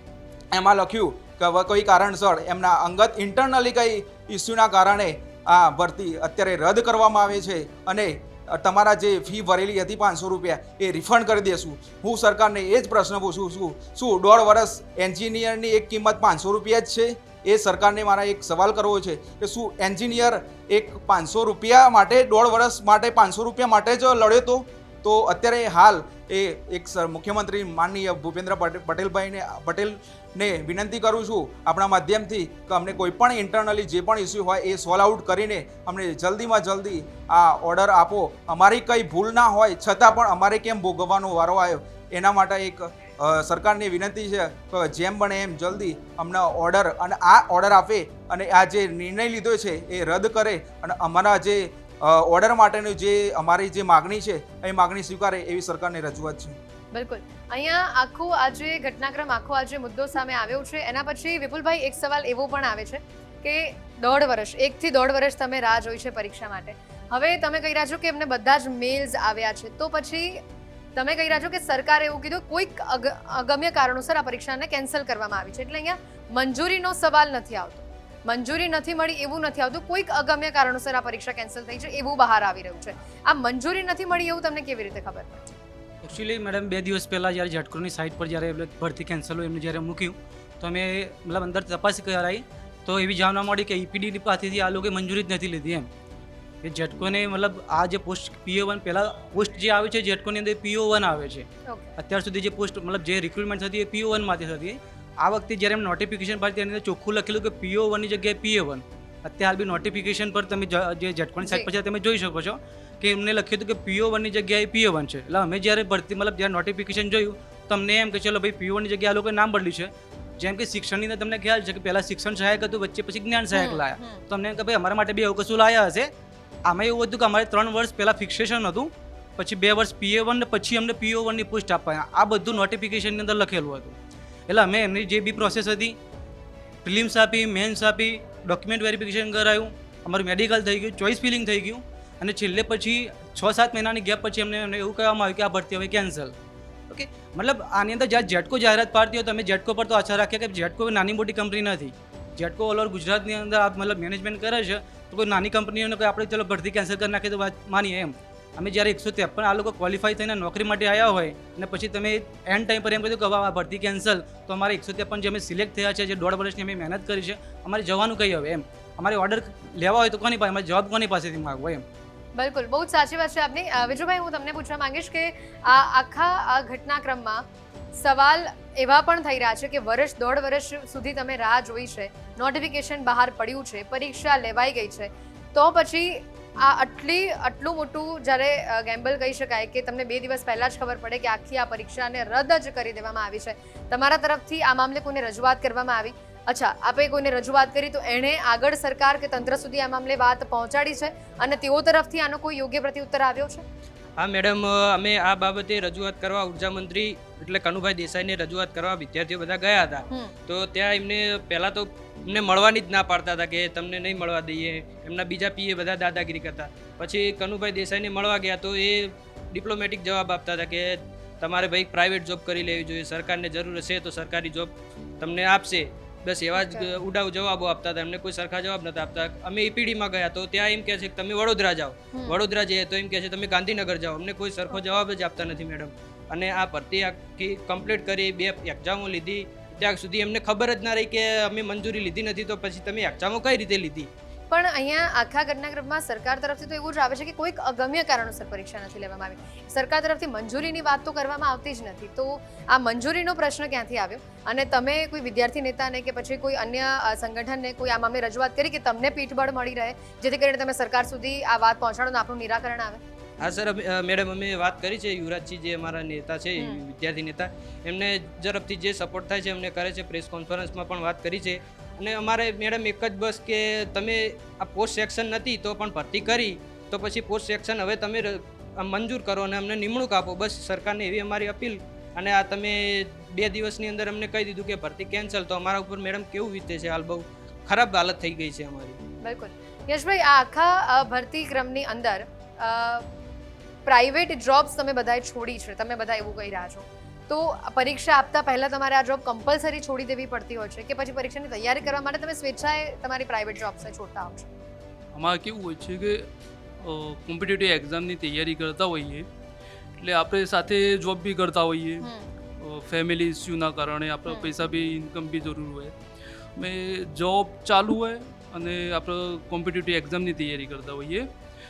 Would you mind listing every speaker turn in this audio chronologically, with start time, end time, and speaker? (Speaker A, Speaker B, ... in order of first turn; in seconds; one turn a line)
Speaker A: 0.5-56.6
Speaker B: 56.9-70.4
Speaker B: 71.0-85.4
Speaker C: 86.0-95.9
Speaker C: 96.6-126.1
Speaker B: 101.7-101.9
Speaker B: 111.4-111.7
Speaker B: 123.5-124.2
Speaker C: 126.7-133.9
Speaker C: 134.5-136.0
Speaker C: 136.8-146.3
Speaker C: 146.9-171.8
Speaker B: 172.4-177.4
Speaker B: 177.9-203.6
Speaker D: 204.2-244.1
Speaker B: 210.1-210.3
Speaker B: 226.5-226.9
Speaker B: 232.1-232.4
Speaker B: 244.5-263.0
Speaker D: 263.4-289.0
Speaker B: 266.6-266.8
Speaker B: 289.2-293.1
Speaker B: 293.9-304.5
Speaker E: 305.1-309.3
Speaker E: 310.0-312.1
Speaker B: 312.0-312.3
Speaker E: 312.6-315.9
Speaker E: 316.5-321.3